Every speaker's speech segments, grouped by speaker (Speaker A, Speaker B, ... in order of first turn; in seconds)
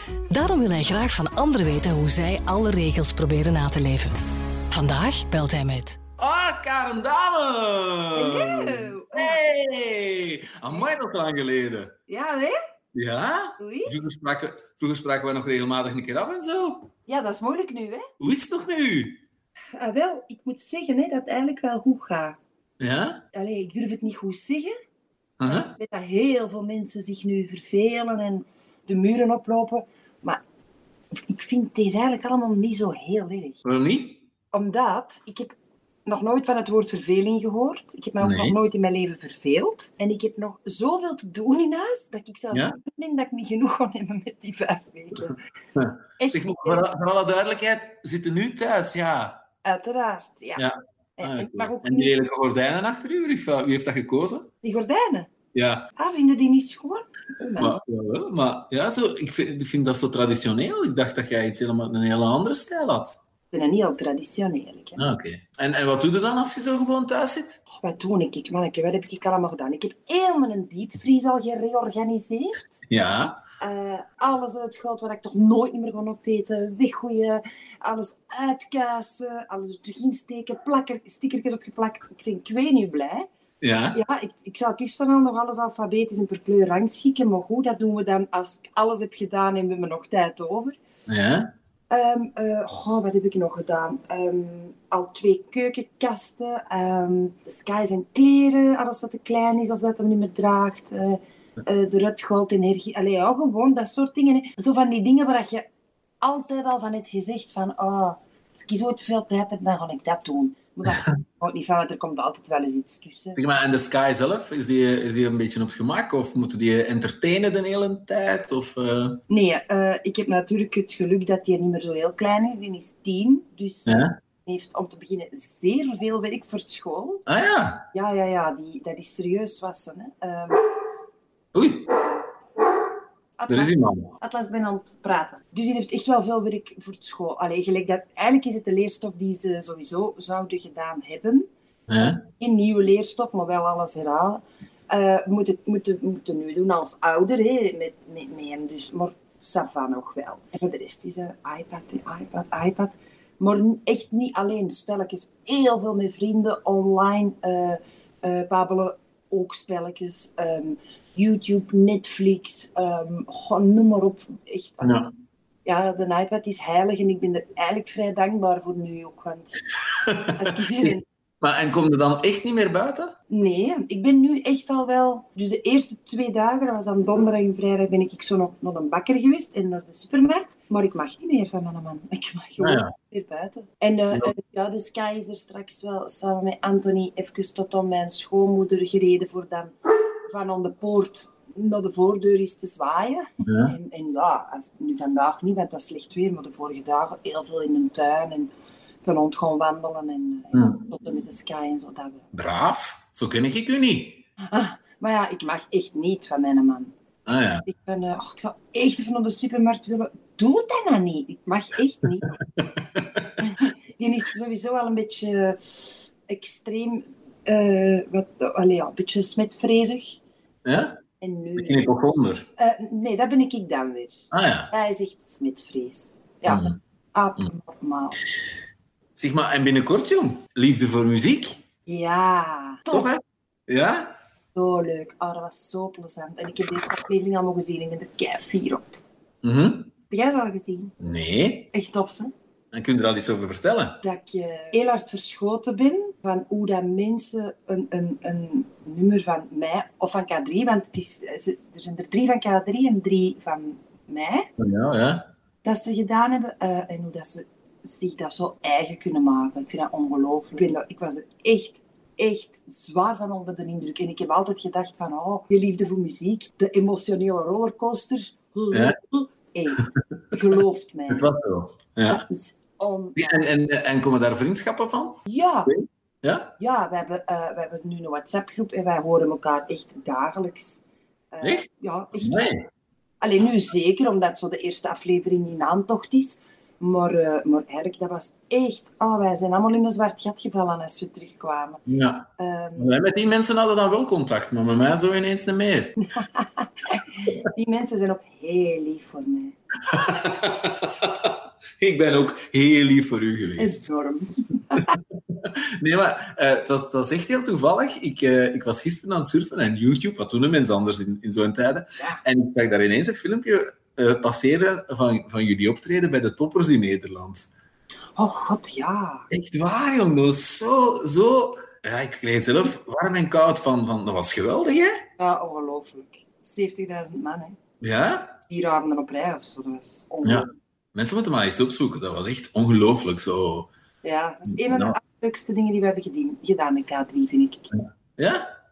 Speaker A: 0.3-4.1, 4.7-6.0
Speaker B: 6.2-11.9, 12.9-16.9, 18.2-19.2, 22.8-23.2, 25.4-25.8, 33.6-34.2, 38.2-38.5, 42.5-42.8, 45.7-49.4, 50.6-54.5, 55.5-55.9, 57.5-63.2, 65.0-67.6, 72.9-73.4, 83.6-84.0, 91.1-91.5, 113.3-119.2, 123.9-124.2, 127.3-127.9, 131.5-131.9, 133.5-134.1, 141.9-142.3, 164.8-165.1, 170.0-173.1, 182.6-182.9, 193.4-193.7, 200.5-200.9, 202.3-204.2, 207.2-207.7, 212.6-213.3, 220.7-221.0, 221.6-222.5, 224.3-224.7, 226.4-226.7, 229.2-231.6, 232.9-234.1, 239.4-239.9, 241.0-241.7, 242.7-244.0, 254.6-255.3, 268.7-268.9, 271.1-272.2, 273.2-276.5, 281.4-282.7, 291.9-296.0, 299.9-303.8, 304.8-317.5, 319.3-325.0, 327.8-328.4, 330.2-333.7, 334.5-335.0, 337.7-338.5
Speaker C: 8.1-9.4, 12.1-12.6, 13.6-14.1, 17.1-18.1, 19.8-22.4, 23.3-24.7, 25.4-30.4, 31.3-33.6, 34.5-35.5, 36.0-45.4, 46.2-46.9, 49.6-50.6, 51.2-52.1, 54.6-55.3, 55.9-57.8, 63.5-65.0, 67.7-72.8, 73.6-83.3, 83.9-90.8, 91.9-105.7, 106.2-113.4, 119.3-127.2, 127.9-130.6, 133.4-141.5, 142.4-165.0, 165.6-169.6, 170.4-171.0, 173.3-189.7, 190.3-198.5, 199.0-202.3, 204.5-206.9, 207.7-212.3, 213.4-220.2, 221.2-221.9, 222.6-228.2, 231.8-233.1, 234.5-239.0, 240.1-240.9, 241.7-242.3, 244.0-254.5, 255.6-271.3, 272.1-273.4, 275.2-275.7, 276.6-282.5, 283.2-291.8, 292.4-292.9, 296.1-299.6, 303.6-304.9, 318.1-319.3, 325.2-327.6, 328.5-330.5, 334.0-337.7